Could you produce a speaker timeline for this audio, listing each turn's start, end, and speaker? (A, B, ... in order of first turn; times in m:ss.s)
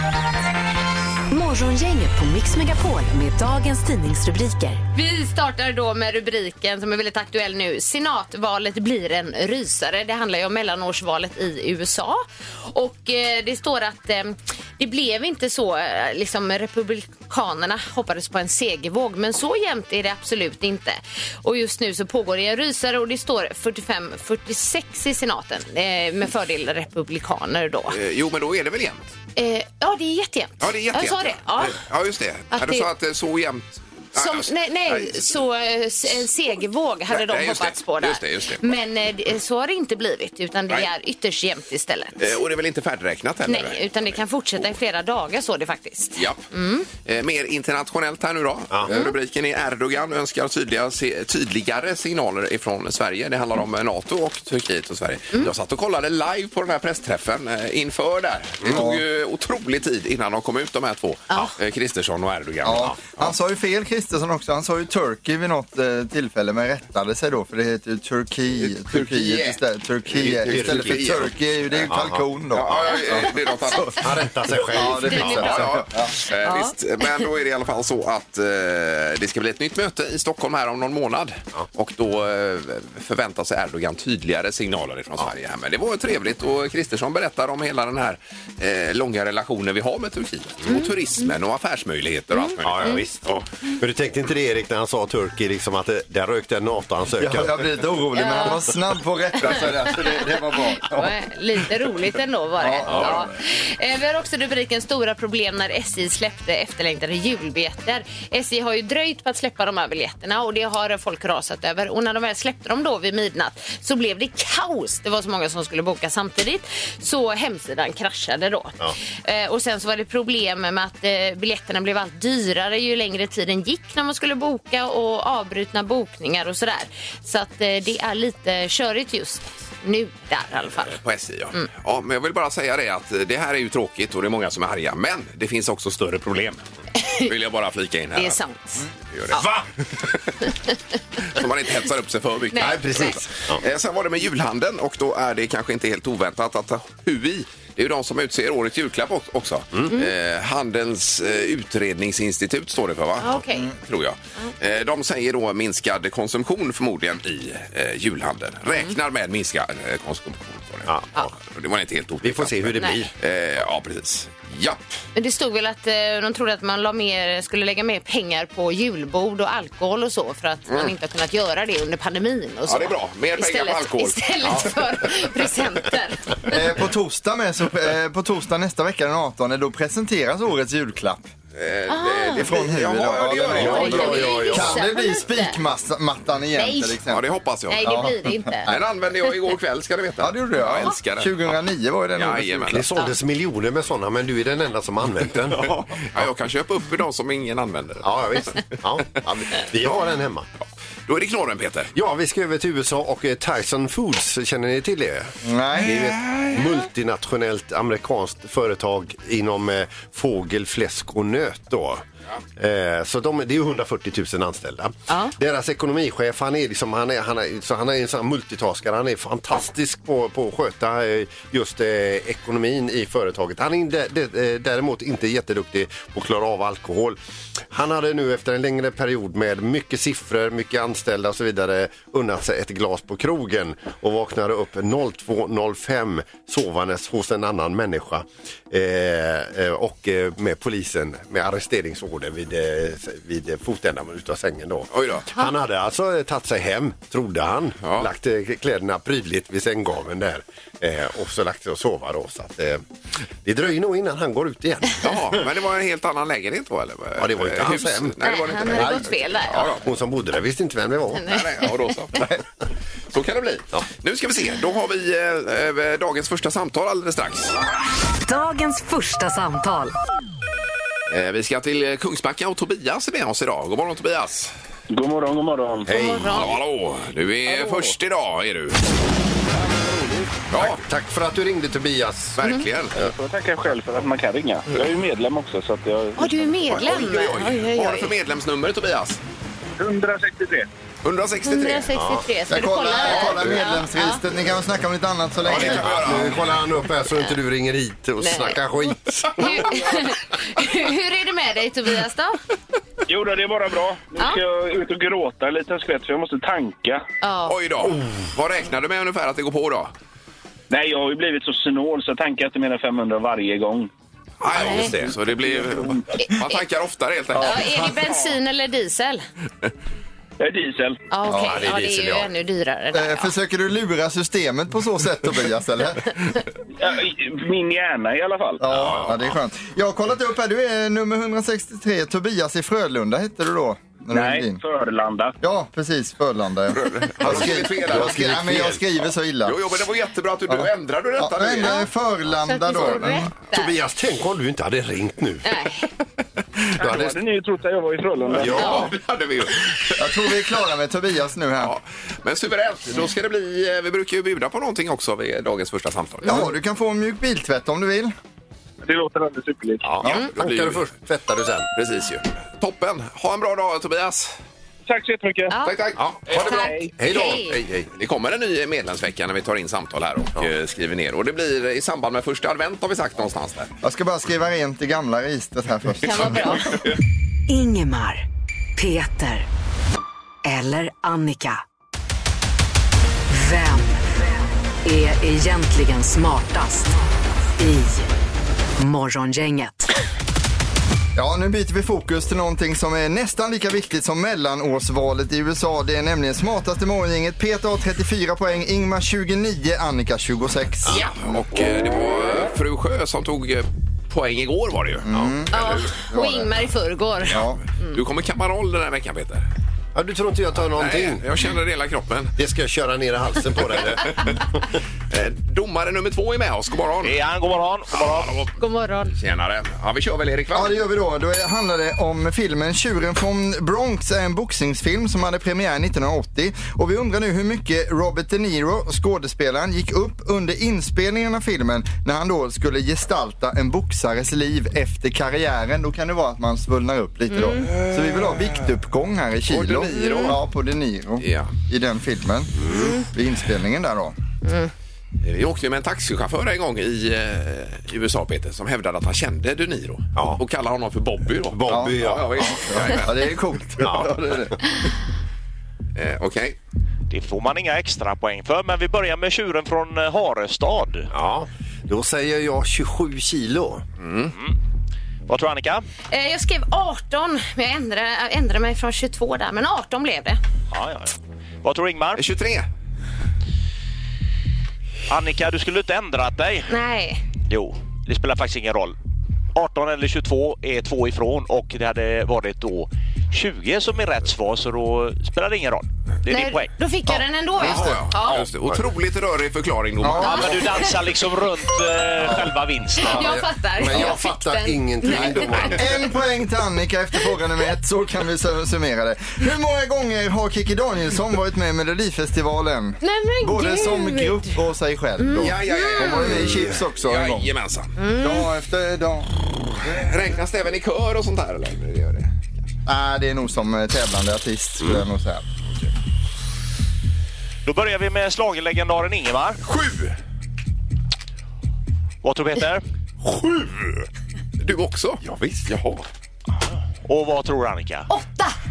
0:01.3-0:04.8 A
0:04.9-0:28.0 B
0:27.9-0:29.1 C
0:29.4-0:31.8 B
0:30.6-0:35.3 C
0:32.5-0:32.9 B
0:34.1-0:42.3 B
0:37.1-0:38.7 C
0:42.2-0:44.1 C
0:43.5-0:46.9 B
0:46.2-1:03.3 C
0:48.9-0:49.1 B
0:58.7-0:59.0 D
1:02.6-1:13.9 D
1:08.6-1:11.9 C
1:10.1-1:11.3 E
1:11.8-1:12.2 E
1:12.5-1:14.0 C
1:13.9-1:15.7 E
1:14.6-1:16.2 D
1:15.0-1:15.7 B
1:15.2-1:33.4 C
1:16.2-1:17.2 B
1:32.3-1:33.0 B
1:32.6-1:37.6 E
1:37.2-1:41.1 D
1:38.1-1:38.6 B
1:39.5-1:40.0 B
1:40.8-2:11.0 B
1:42.6-1:43.4 D
1:42.9-1:43.2 E
2:10.9-2:16.7 C
2:17.0-2:17.3 B
2:17.2-2:18.4 C
2:18.1-2:18.9 B
2:19.1-2:20.3 C
2:19.4-2:19.6 E
2:21.2-2:44.8 C
2:22.5-2:23.2 B
2:22.6-2:23.6 E
2:33.2-2:33.7 B
2:40.9-2:41.2 E
2:42.2-2:43.1 E
2:45.2-2:56.6 B
2:52.7-2:54.6 C
2:56.5-3:01.3 D
3:01.5-3:04.5 C
3:01.9-3:02.5 B
3:02.3-3:07.2 D
3:03.5-3:04.8 E
3:03.6-3:05.6 B
3:06.6-3:07.0 B
3:07.1-3:08.1 C
3:07.7-3:08.7 B
3:07.8-3:08.8 D
3:08.6-3:11.6 C
3:10.2-3:12.9 D
3:12.2-3:12.9 C
3:12.7-3:15.8 E
3:15.5-3:18.1 C
3:18.0-3:20.5 E
3:21.1-3:21.9 C
3:21.9-3:32.0 E
3:25.4-3:26.2 D
3:26.0-3:26.5 C
3:32.6-3:47.2 E
3:35.1-3:35.3 B
3:47.7-4:12.8 E
4:04.9-4:05.3 C
4:07.8-4:08.1 C
4:13.4-4:15.5 E
4:15.0-4:19.8 C
4:17.2-4:19.1 E
4:18.2-4:19.7 B
4:19.8-4:21.3 E
4:21.2-4:21.7 B
4:21.2-4:22.4 C
4:23.1-4:27.5 C
4:28.2-4:30.0 A
4:31.1-4:34.5 C
4:34.9-4:35.9 F
4:35.8-4:36.6 E
4:35.9-4:36.5 B
4:36.3-4:38.8 C
4:37.4-4:38.0 F
4:39.7-4:40.2 F
4:40.5-4:40.8 C
4:40.6-4:42.4 E
4:42.4-4:43.0 C
4:42.9-4:46.3 F
4:46.2-4:48.1 B
4:46.7-4:49.2 C
4:49.8-4:50.7 F
4:51.0-4:51.9 C
4:51.4-4:54.2 B
4:51.9-4:52.2 E
4:52.5-4:56.3 D
4:53.0-4:53.4 C
4:55.4-4:56.5 C
4:55.5-4:59.8 E
4:58.2-4:58.6 B
4:59.3-5:02.4 B
5:03.1-5:07.0 F
5:07.2-5:07.6 B
5:07.5-5:09.9 C
5:10.7-5:13.9 F
5:14.4-5:18.1 C
5:14.5-5:15.2 E
5:14.5-5:14.9 B
5:16.2-5:16.6 B
5:17.4-5:19.2 B
5:20.4-5:21.0 F
5:21.1-5:23.3 B
5:21.3-5:21.5 D
5:21.3-5:22.3 E
5:22.9-5:26.4 D
5:26.8-5:28.6 F
5:28.6-5:34.6 D
5:28.7-5:29.2 C
5:34.1-5:35.4 F
5:35.4-5:39.6 D
5:36.7-5:38.4 C
5:37.2-5:38.8 E
5:39.4-5:41.9 C
5:40.5-5:43.3 D
5:42.4-5:43.7 B
5:43.5-5:45.4 E
5:45.4-5:45.8 B
5:46.8-5:47.2 E
5:46.8-5:48.8 F
5:48.3-5:48.9 E
5:48.4-5:50.0 C
5:48.6-5:48.9 B
5:50.0-5:51.7 D
5:51.6-5:56.5 C
5:56.2-5:58.1 D
5:58.8-5:59.9 F
5:59.8-6:01.7 E
6:00.0-6:00.9 C
6:01.8-6:04.4 C
6:04.9-6:05.6 F
6:05.5-6:05.7 B
6:05.6-6:06.4 C
6:06.0-6:07.9 E
6:06.3-6:06.9 F
6:06.4-6:07.6 B
6:07.9-6:13.7 C
6:13.8-6:16.8 D
6:16.0-6:16.8 B
6:17.5-6:18.2 A
6:18.8-6:19.4 A
6:20.4-6:21.6 A
6:23.3-6:24.1 A
6:24.8-6:26.9 A
6:27.6-6:28.1 A
6:28.8-6:29.9 A
6:31.1-6:41.1 D
6:40.9-6:45.7 C
6:45.0-6:46.6 D
6:45.1-6:45.4 E
6:45.5-6:48.0 B
6:47.2-6:47.6 D
6:47.3-6:49.4 C
6:49.9-6:51.2 E
6:50.7-6:52.3 C
6:52.4-6:54.5 E
6:55.1-6:57.2 C
6:57.0-6:58.4 G
6:57.9-6:58.5 C
6:58.6-6:59.1 B
6:59.1-7:00.8 C
7:00.5-7:24.2 D
7:17.3-7:17.7 B
7:17.7-7:18.6 C
7:19.5-7:20.4 C
7:19.9-7:20.4 B
7:21.2-7:21.5 C
7:22.6-7:22.9 E
7:22.8-7:23.0 B
7:24.4-7:24.7 B
7:25.2-7:34.4 C
7:30.2-7:30.4 E
7:31.5-7:32.6 E
7:31.7-7:34.5 D
7:33.8-7:34.2 E
7:36.0-7:36.6 C
7:37.1-7:41.1 G
7:41.1-7:43.8 E
7:44.0-7:44.3 C
7:45.3-7:45.8 G
7:46.1-7:50.4 B
7:50.7-7:52.2 G
7:52.2-7:52.7 C
7:55.1-7:56.7 G
7:56.7-7:57.2 B
7:57.5-7:59.0 G
7:59.5-8:06.7 G
8:06.3-8:08.4 B
8:07.6-8:10.8 C
8:10.0-8:10.4 D
8:10.2-8:13.4 G
8:10.2-8:10.9 B
8:12.2-8:12.5 D
8:13.0-8:15.7 B
8:13.0-8:16.1 E
8:15.1-8:27.5 D
8:23.0-8:24.5 B
8:25.2-8:26.4 B
8:25.4-8:27.9 C
8:26.5-8:26.8 E
8:28.0-8:28.5 B
8:28.1-8:30.0 D
8:29.8-8:32.5 C
8:32.8-8:35.4 D
8:37.6-8:39.6 G
8:39.6-8:40.1 C
8:42.2-8:42.8 G
8:44.6-8:46.0 C
8:45.2-8:45.7 E
8:47.0-8:48.1 G
8:48.1-8:48.5 B